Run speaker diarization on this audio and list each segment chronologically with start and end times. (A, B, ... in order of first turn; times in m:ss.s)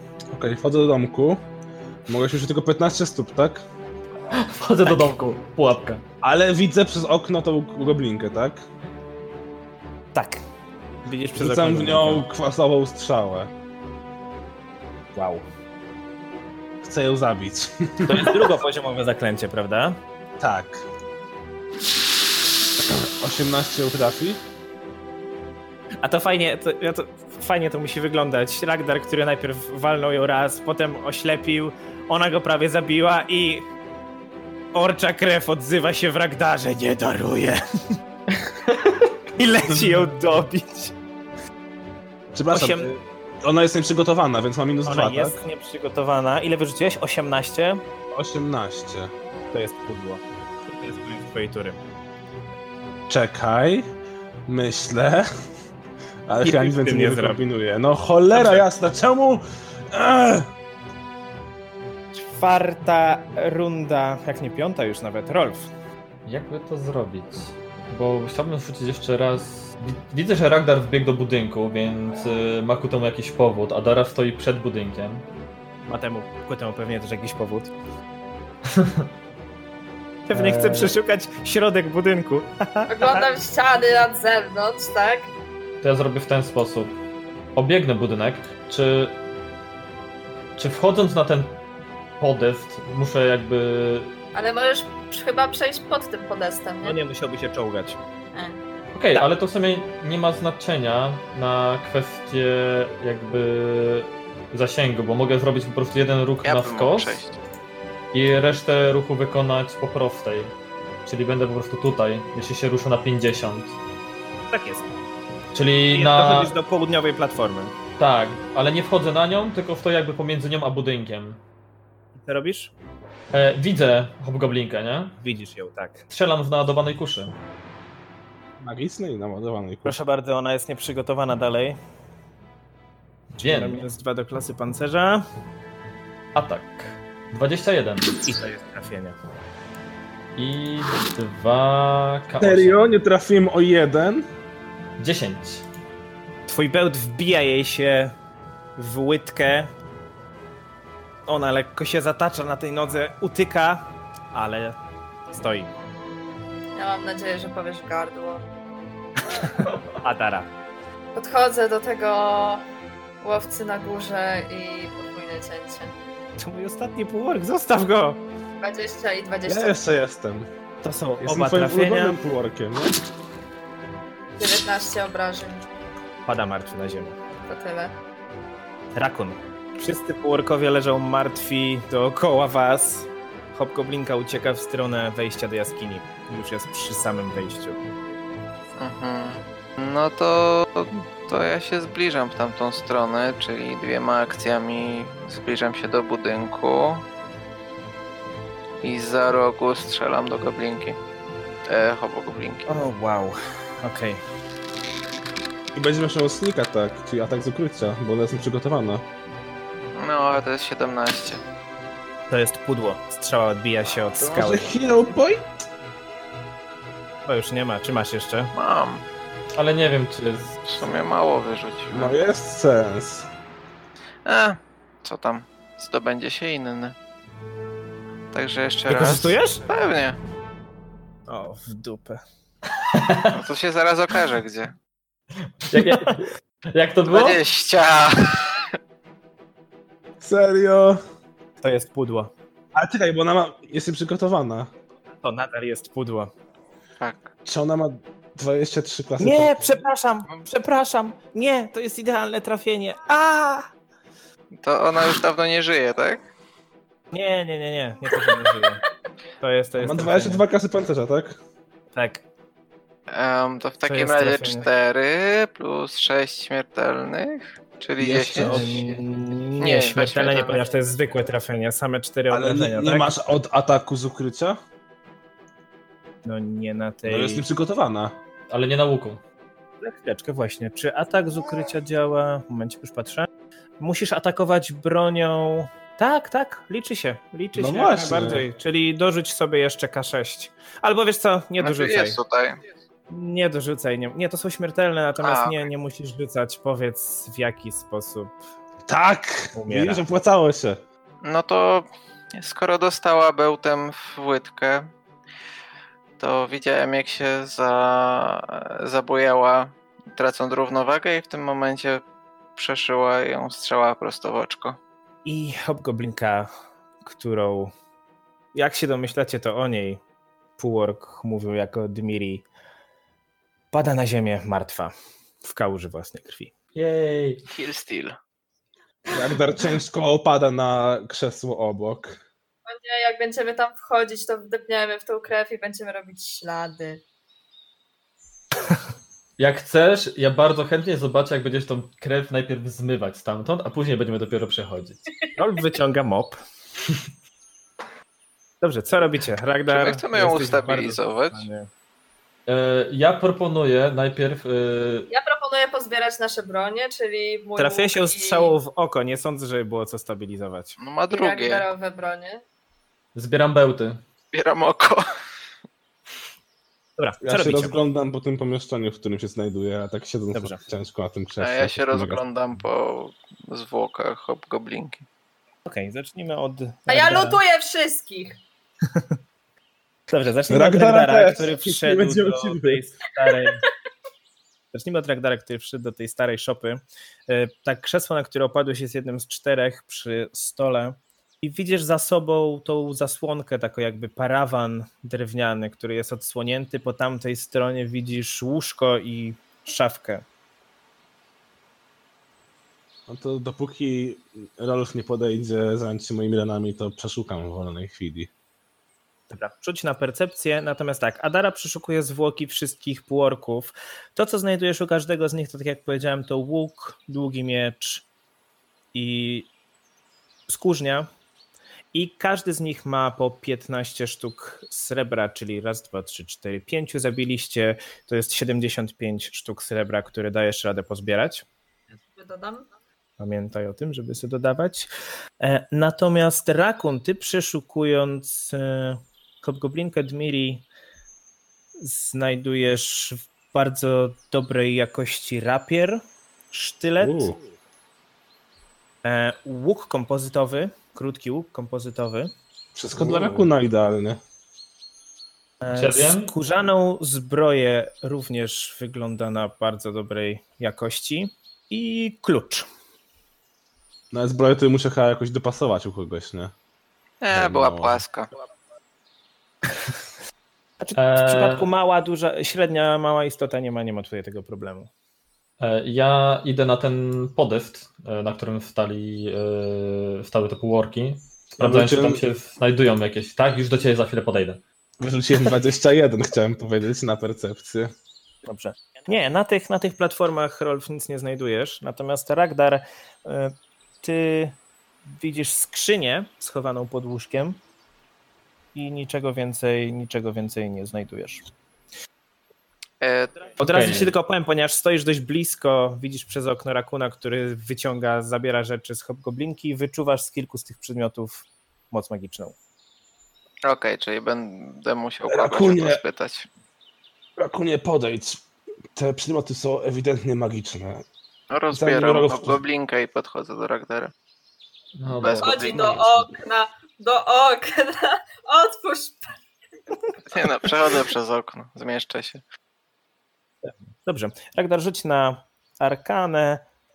0:00.3-0:01.4 A
0:02.1-0:03.6 A
0:04.3-0:06.0 B
0:06.2-0:08.6 A
0:10.1-0:10.4 C
0:11.0-0:12.2 C
0:11.4-0:13.5 A
0:15.1-0:15.4 C
0:16.8-0:18.5 A
0:18.0-0:20.0 C
0:20.4-0:20.8 A
0:22.8-0:24.4 A
0:26.0-0:33.7 C
0:34.7-0:38.0 C
0:39.4-0:41.0 C
0:42.3-0:45.4 A
0:42.5-0:42.9 C
0:44.8-0:47.8 C
0:48.1-0:49.1 A
0:49.5-0:51.8 C
0:53.1-0:53.9 A
0:54.5-0:55.3 A
0:56.3-1:00.5 A
0:56.4-0:57.4 C
0:58.3-0:58.6 C
1:02.2-1:05.7 C
1:06.3-1:15.3 B
1:15.9-1:17.7 C
1:18.7-1:19.1 B
1:20.3-1:23.3 C
1:20.3-1:20.9 B
1:22.9-1:25.3 D
1:25.8-1:27.0 B
1:27.6-1:29.2 B
1:30.6-1:31.6 B
1:32.2-1:34.2 B
1:34.3-1:37.0 D
1:36.8-1:38.0 C
1:38.3-1:38.6 D
1:38.9-1:47.2 B
1:46.4-1:47.4 E
1:48.1-1:50.5 B
1:51.0-1:53.8 B
1:54.5-1:54.9 C
1:55.5-1:56.5 B
1:55.9-1:57.8 C
1:58.0-2:01.4 B
2:02.2-2:02.7 C
2:03.3-2:05.2 B
2:05.2-2:06.0 C
2:06.1-2:07.4 B
2:08.6-2:10.0 A
2:09.8-2:11.8 C
2:13.4-2:15.2 C
2:13.4-2:13.8 B
2:16.4-2:18.2 B
2:18.3-2:19.2 C
2:20.4-2:22.8 B
2:22.4-2:24.3 A
2:25.0-2:25.6 B
2:26.5-2:28.1 C
2:28.8-2:29.7 C
2:31.3-2:34.8 C
2:35.3-2:35.7 C
2:36.8-2:38.5 D
2:39.3-2:40.5 C
2:41.1-2:42.7 D
2:43.2-2:45.9 D
2:46.4-2:48.2 C
2:48.6-2:49.8 D
2:49.5-2:50.5 A
2:50.8-2:52.2 C
2:51.2-2:53.0 A
2:54.4-2:55.7 D
2:56.3-2:57.2 C
2:57.5-2:57.9 D
2:59.0-3:07.8 C
3:08.8-3:17.0 E
3:18.8-3:21.0 E
3:21.7-3:22.7 E
3:22.7-3:24.2 C
3:25.7-3:29.0 A
3:30.0-3:31.4 E
3:32.3-3:34.7 C
3:34.2-3:35.5 A
3:37.3-3:38.5 C
3:38.5-3:39.0 E
3:39.6-3:40.6 B
3:40.6-3:42.2 E
3:41.9-3:43.3 A
3:44.3-3:47.0 E
3:48.3-3:50.2 E
3:48.9-3:49.6 C
3:51.3-3:52.2 C
3:52.8-3:53.4 B
3:53.3-3:54.7 E
3:55.6-3:57.4 B
3:55.7-3:56.2 C
3:57.1-3:58.6 E
4:00.2-4:01.0 A
4:01.6-4:02.3 C
4:02.7-4:04.7 A
4:05.2-4:06.3 C
4:07.0-4:07.3 E
4:07.4-4:09.8 A
4:09.2-4:13.7 C
4:14.6-4:16.2 E
4:17.1-4:18.8 C
4:19.4-4:20.4 C
4:19.8-4:21.4 A
4:21.9-4:22.2 C
4:23.1-4:28.8 E
4:23.8-4:24.7 C
4:28.0-4:29.0 A
4:28.4-4:33.1 C
4:29.6-4:30.6 E
4:32.3-4:34.6 A
4:36.2-4:37.4 C
4:37.1-4:38.2 A
4:38.5-4:39.2 B
4:39.8-4:43.3 C
4:43.8-4:52.2 C
4:47.6-4:48.5 A
4:51.6-4:52.6 E
4:53.1-4:58.3 C
4:55.2-4:55.6 E
4:58.9-5:00.8 A
4:59.6-5:00.0 C
5:01.2-5:04.9 E
5:06.2-5:12.0 E
5:12.6-5:14.8 E
5:15.2-5:16.5 C
5:17.0-5:17.7 C
5:18.5-5:20.0 C
5:20.6-5:22.5 C
5:23.7-5:26.5 C
5:26.8-5:27.4 B
5:27.5-5:28.2 E
5:29.1-5:32.2 A
5:32.7-5:37.0 D
5:39.4-5:45.0 B
5:45.4-5:46.4 C
5:48.6-5:51.7 C
5:49.7-5:51.5 E
5:52.5-5:55.1 B
5:55.1-5:58.6 D
5:57.6-6:00.8 C
6:00.8-6:01.7 E
6:01.1-6:02.4 D
6:03.2-6:04.0 B
6:04.3-6:05.0 E
6:07.0-6:07.8 C
6:07.2-6:12.2 A
6:10.3-6:10.6 C
6:11.4-6:15.0 E
6:15.7-6:17.4 C
6:16.9-6:18.4 D
6:20.1-6:23.7 C
6:20.5-6:22.8 A
6:24.7-6:40.2 C
6:43.1-6:48.3 A
6:49.3-6:58.1 C
6:58.9-6:59.5 C
7:00.5-7:01.1 C
7:01.9-7:11.4 C
7:12.0-7:12.7 D
7:13.2-7:14.9 C
7:15.4-7:20.6 C
7:21.8-7:27.4 C
7:27.0-7:27.4 A
7:29.0-7:32.3 C
7:32.8-7:34.2 A
7:33.0-7:33.4 C
7:35.6-7:42.7 C
7:35.7-7:36.3 B
7:44.1-7:46.5 A
7:47.2-7:48.3 E
7:47.3-7:48.0 A
7:50.8-7:54.9 C
7:51.0-7:51.7 B
7:55.6-8:04.6 B
8:01.6-8:02.2 A
8:05.0-8:07.9 A
8:08.5-8:17.6 C
8:18.8-8:21.4 C
8:23.0-8:23.5 E
8:23.6-8:32.6 C
8:23.7-8:24.1 B
8:33.7-8:36.5 E
8:35.3-8:36.0 A
8:37.4-8:38.4 A
8:39.0-8:41.0 A
8:41.5-8:44.1 E
8:41.7-8:42.6 A
8:45.0-8:46.2 B
8:45.2-8:46.0 E
8:45.4-8:49.3 D
8:50.3-8:52.4 E
8:53.6-8:56.6 C